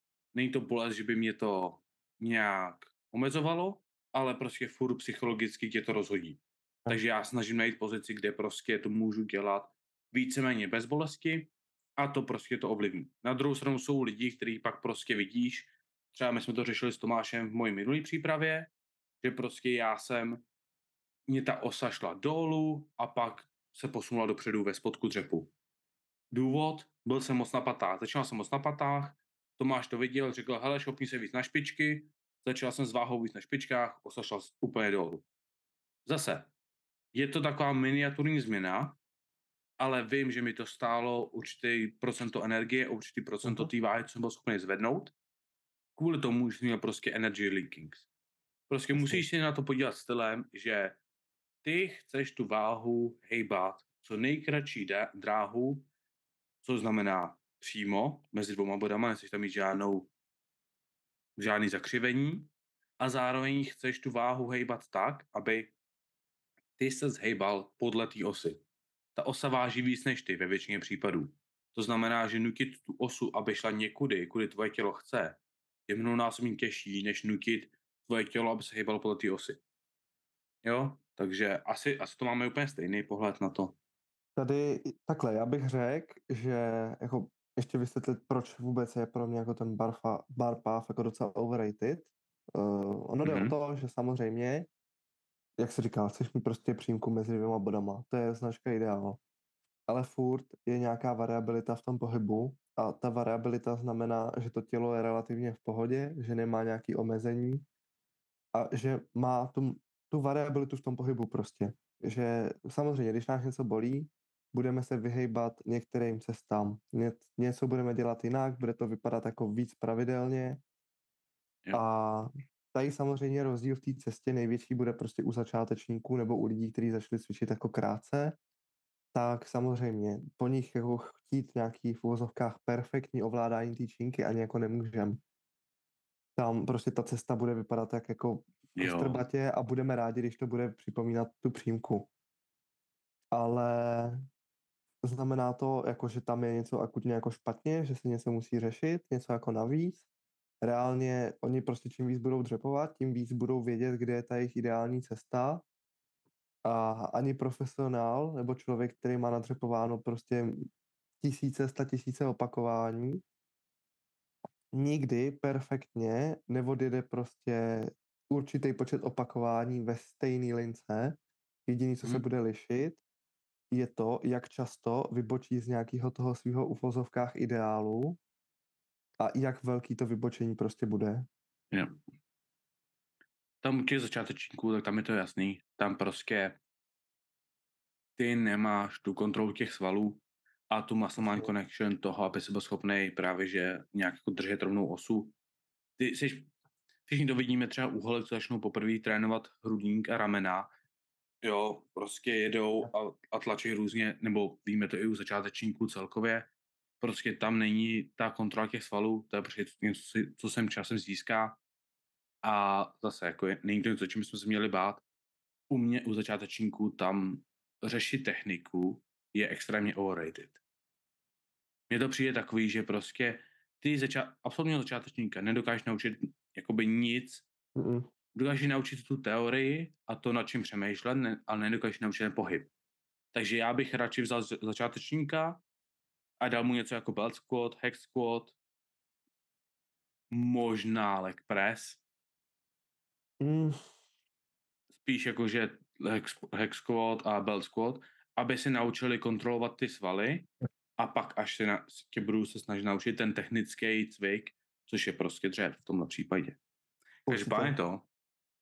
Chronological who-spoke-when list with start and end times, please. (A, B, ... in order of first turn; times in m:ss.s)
0:00.3-0:18.7 A
0:19.2-0:20.4 A
0:21.3-0:25.5 A
0:26.3-0:35.2 A
0:36.0-0:36.5 A
0:37.1-0:39.0 A
0:39.8-0:45.1 A
0:43.4-0:43.7 B
0:46.0-0:48.1 A
0:48.7-0:51.0 A
0:48.9-0:49.2 B
0:51.6-0:55.9 A
0:56.6-1:00.1 A
1:01.4-1:05.7 A
1:06.8-1:08.6 A
1:09.1-1:19.6 A
1:20.6-1:23.7 A
1:24.4-1:34.7 B
1:33.2-1:33.6 A
1:35.6-1:39.2 B
1:39.9-1:47.6 B
1:48.5-2:00.6 B
2:01.7-2:08.4 B
2:09.1-2:15.2 B
2:16.4-2:22.1 B
2:18.7-2:19.2 A
2:23.3-2:24.2 B
2:25.0-2:30.0 B
2:30.6-2:35.6 B
2:36.6-2:40.7 B
2:41.2-2:43.2 B
2:44.7-2:53.0 B
2:53.7-2:58.2 B
2:59.2-3:01.3 B
3:03.6-3:06.6 A
3:08.2-3:15.3 A
3:16.0-3:16.5 A
3:17.1-3:20.7 A
3:21.4-3:26.5 A
3:27.0-3:31.6 A
3:32.4-3:35.0 A
3:35.7-3:40.6 A
3:41.9-3:47.4 A
3:47.8-3:48.1 B
3:48.3-3:52.7 A
3:53.3-3:55.6 A
3:56.4-3:58.6 A
4:00.3-4:02.0 A
4:03.4-4:03.8 B
4:05.0-4:16.6 A
4:17.3-4:17.8 B
4:17.3-4:18.1 A